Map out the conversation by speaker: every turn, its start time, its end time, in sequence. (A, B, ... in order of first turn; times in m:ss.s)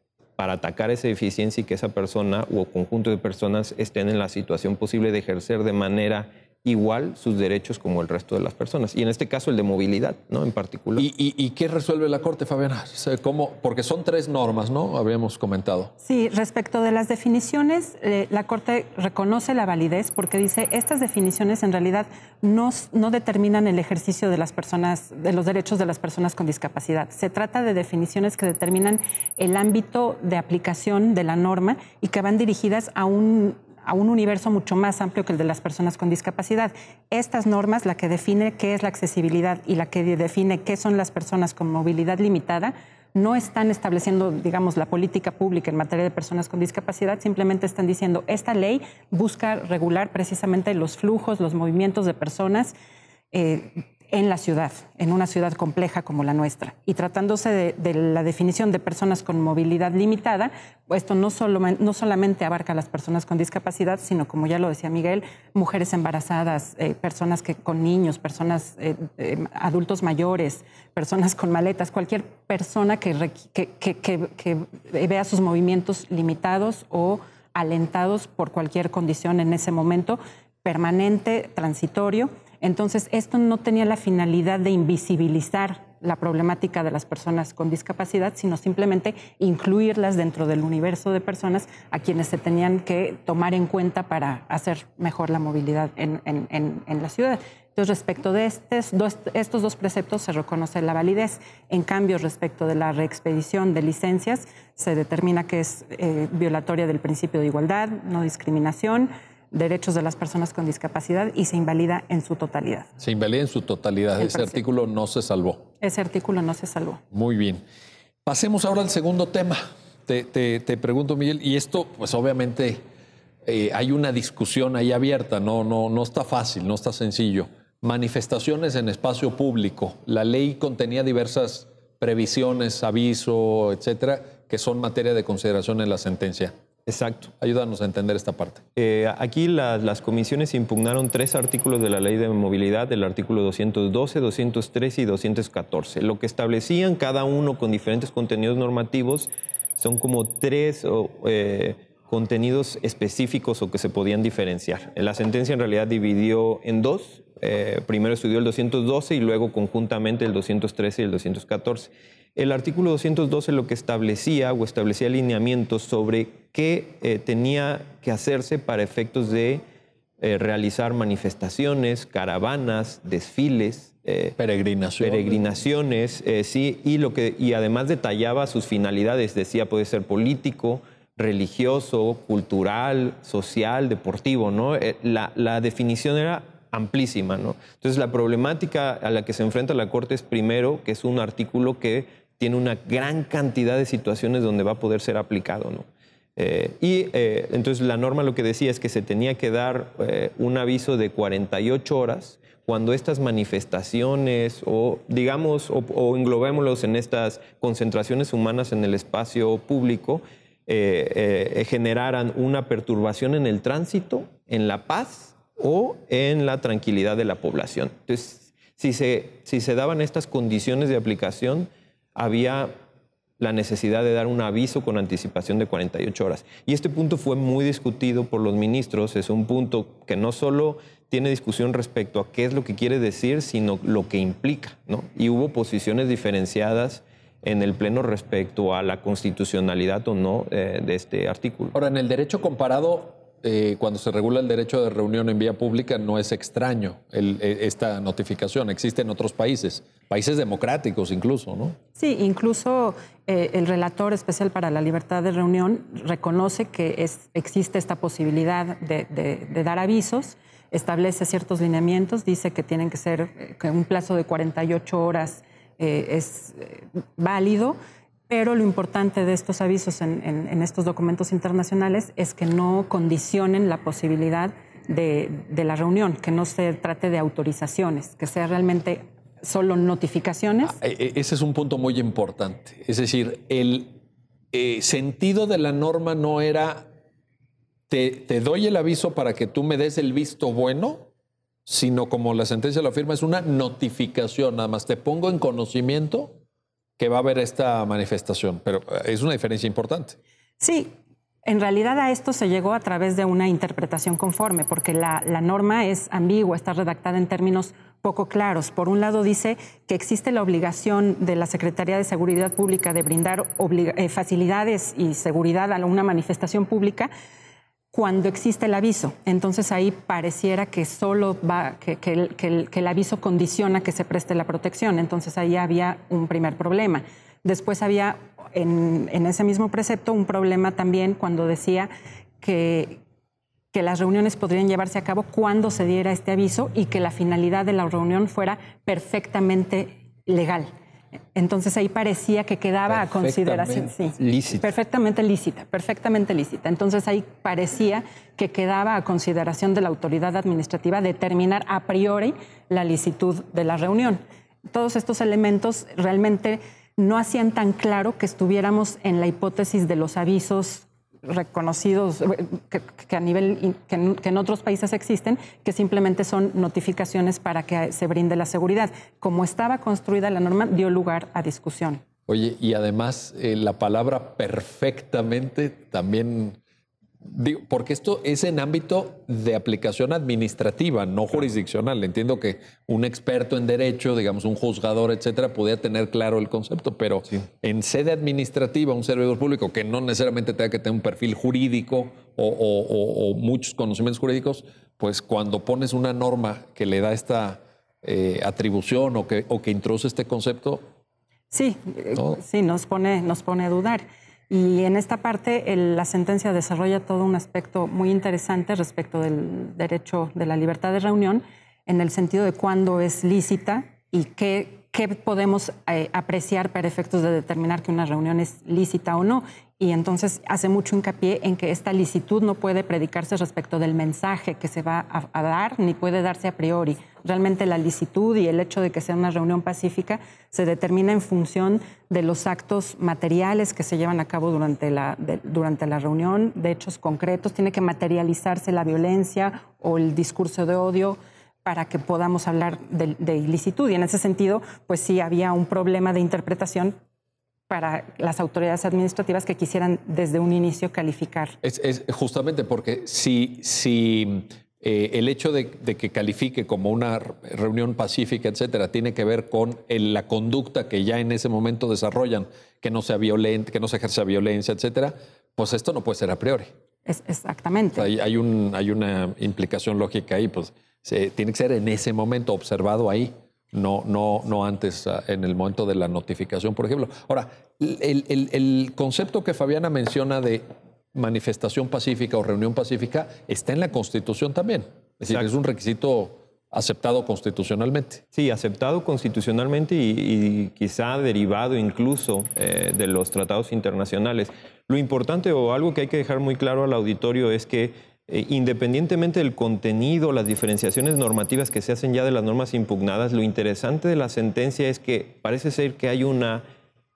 0:00.4-0:11.1 A
0:11.0-0:15.9 B
0:16.0-0:52.7 C
0:53.3-1:52.9 C
1:53.0-1:55.6 B
1:54.2-1:54.6 C
1:55.8-1:57.0 C
1:57.1-1:57.6 B
1:58.2-2:02.8 B
2:03.4-2:16.5 B
2:16.9-2:17.3 A
2:17.4-2:18.6 B
2:18.8-2:49.6 A
2:50.2-2:54.4 A
2:54.4-2:55.4 B
2:55.0-3:42.7 A
3:43.4-4:01.7 A
4:01.7-4:11.8 B
4:12.0-4:27.8 C
4:28.3-4:40.8 C
4:40.7-4:44.0 B
4:44.5-4:46.9 B
4:47.9-4:51.1 B
4:51.7-4:56.4 B
4:57.0-5:00.2 B
5:00.6-5:00.9 C
5:01.4-5:17.1 C
5:17.9-5:31.9 C
5:32.4-5:33.0 C
5:33.7-5:40.7 C
5:41.4-6:12.0 C
5:42.9-5:44.5 B
5:44.2-5:44.6 A
6:12.3-6:16.6 B
6:17.2-6:40.8 B
6:41.5-7:27.0 C
7:27.7-7:31.6 C
7:31.6-7:46.7 B
7:47.1-7:48.1 C
7:48.0-8:08.2 B
8:05.2-8:05.5 A
8:08.3-8:26.6 A